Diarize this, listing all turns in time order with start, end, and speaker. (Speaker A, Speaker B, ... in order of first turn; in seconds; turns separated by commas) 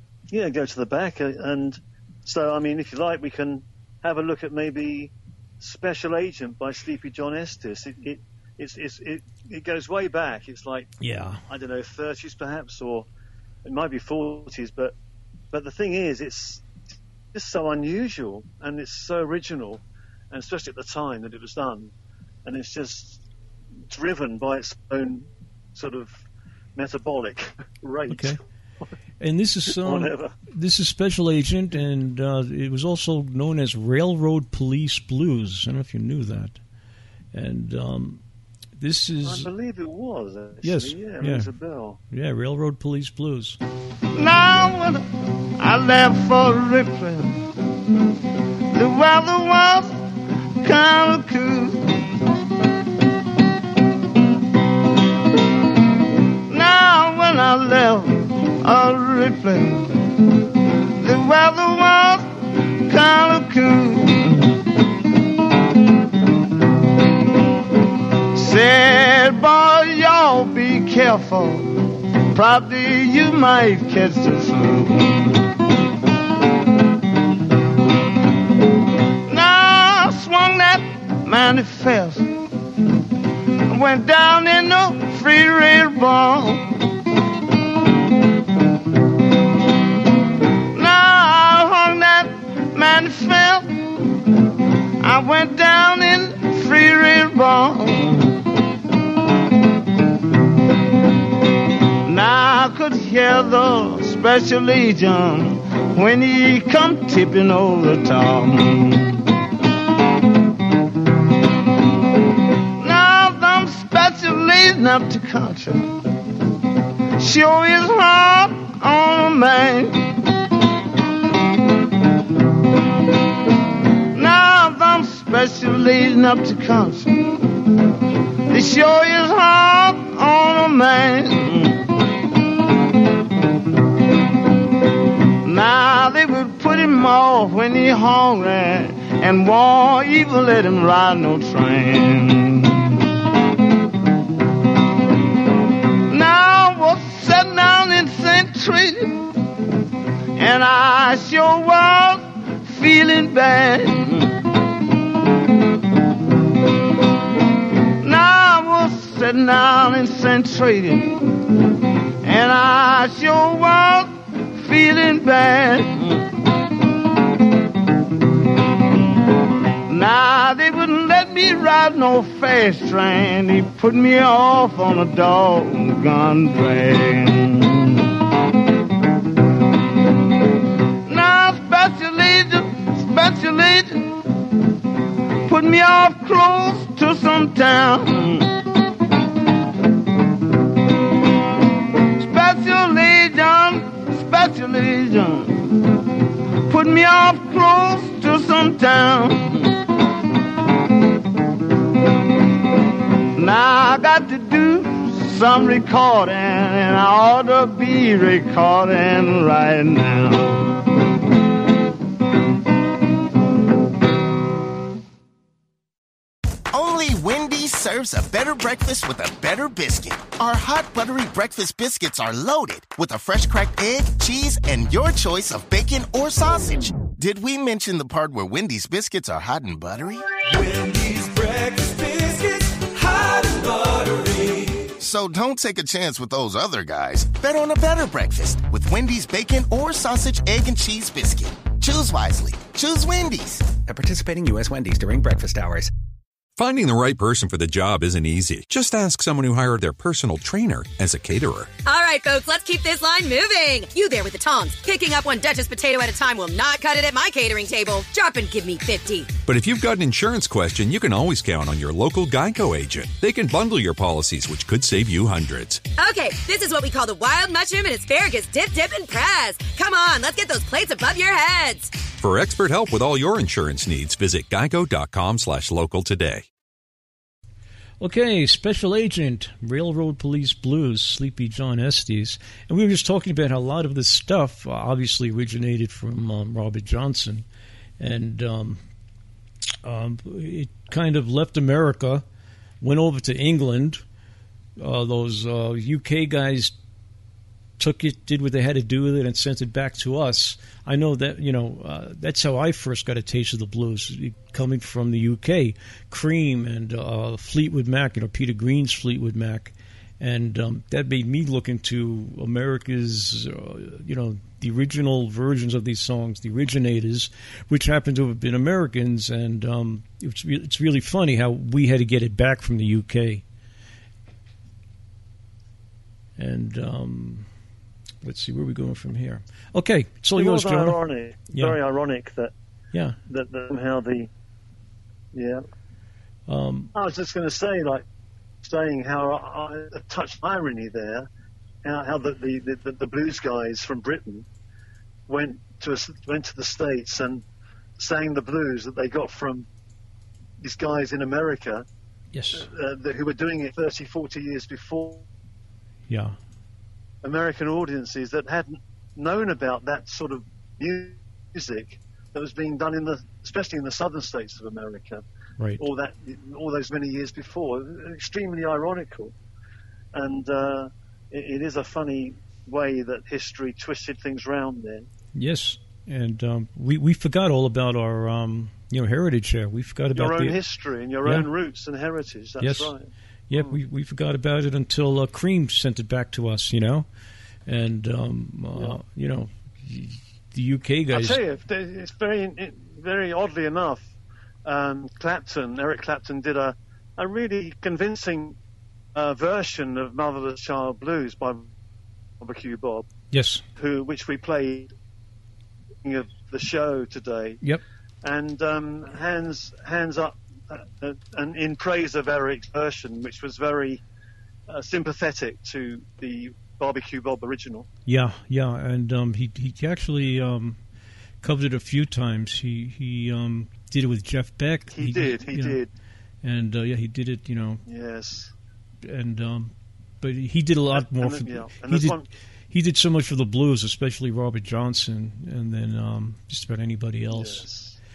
Speaker A: 0.3-10.9, Speaker B: 11.0-11.4, Speaker A: 11.5-13.1, Speaker A: 13.7-14.9, Speaker A: 15.5-16.6, Speaker A: 17.3-21.9, Speaker A: 22.4-23.2, Speaker A: 23.9-26.2, Speaker A: 26.8-28.4, Speaker B: 28.1-28.4, Speaker B: 29.2-36.6, Speaker A: 29.7-30.3, Speaker B: 37.3-38.2, Speaker B: 38.8-39.5, Speaker A: 39.2-42.0, Speaker B: 40.6-41.5, Speaker B: 42.1-43.6, Speaker C: 44.1-45.1, Speaker C: 45.6-47.4, Speaker C: 48.7-50.1, Speaker C: 50.6-52.0, Speaker C: 56.5-60.1, Speaker C: 61.0-64.5, Speaker C: 68.3-75.4, Speaker C: 79.3-82.3, Speaker C: 83.7-86.7, Speaker C: 90.7-93.8, Speaker C: 95.0-98.4, Speaker C: 102.0-109.2, Speaker C: 112.8-115.9, Speaker C: 117.2-120.2, Speaker C: 124.1-127.1, Speaker C: 128.5-131.8, Speaker C: 135.4-142.9, Speaker C: 146.1-149.2, Speaker C: 150.3-154.3, Speaker C: 158.0-161.1, Speaker C: 162.2-166.2, Speaker C: 169.9-178.0, Speaker C: 181.1-184.1, Speaker C: 185.4-188.6, Speaker C: 192.2-195.7, Speaker C: 196.7-199.7, Speaker C: 203.3-210.7, Speaker D: 216.7-230.3, Speaker E: 230.5-234.9, Speaker D: 235.0-243.7, Speaker F: 243.9-245.9, Speaker G: 246.6-251.7, Speaker H: 251.8-259.3, Speaker G: 259.4-265.8, Speaker H: 266.0-272.0, Speaker G: 272.2-276.5, Speaker B: 278.0-287.4, Speaker B: 288.0-288.8, Speaker B: 289.8-292.2, Speaker B: 292.8-294.0, Speaker B: 294.8-296.8, Speaker B: 297.8-323.4, Speaker B: 326.4-327.5, Speaker B: 328.2-331.0, Speaker A: 330.4-332.5, Speaker B: 331.5-331.8, Speaker A: 333.3-334.3, Speaker A: 335.3-335.6, Speaker B: 336.5-336.9, Speaker A: 336.9-338.0, Speaker A: 338.6-341.3, Speaker A: 341.9-344.5, Speaker A: 345.3-347.4, Speaker A: 348.0-349.7, Speaker A: 350.6-351.9, Speaker B: 352.3-352.7, Speaker A: 352.6-355.2, Speaker B: 356.1-356.4, Speaker A: 357.2-365.2, Speaker B: 365.6-365.8, Speaker A: 365.8-369.3, Speaker A: 370.1-375.1, Speaker B: 375.4-380.6, Speaker A: 380.1-383.8, Speaker B: 382.6-382.9, Speaker B: 383.5-387.1, Speaker B: 387.7-391.4, Speaker A: 391.1-394.1, Speaker A: 394.6-398.6, Speaker A: 399.1-401.7, Speaker A: 402.4-403.1, Speaker B: 403.3-403.6, Speaker A: 403.8-404.9, Speaker A: 406.0-407.6, Speaker A: 408.2-414.0, Speaker A: 414.7-417.9, Speaker B: 418.1-420.8, Speaker B: 421.4-425.8, Speaker A: 424.9-425.9, Speaker B: 426.4-427.8, Speaker A: 427.9-428.5, Speaker B: 429.0-432.2, Speaker A: 430.9-432.3, Speaker B: 432.7-437.6, Speaker A: 437.3-438.0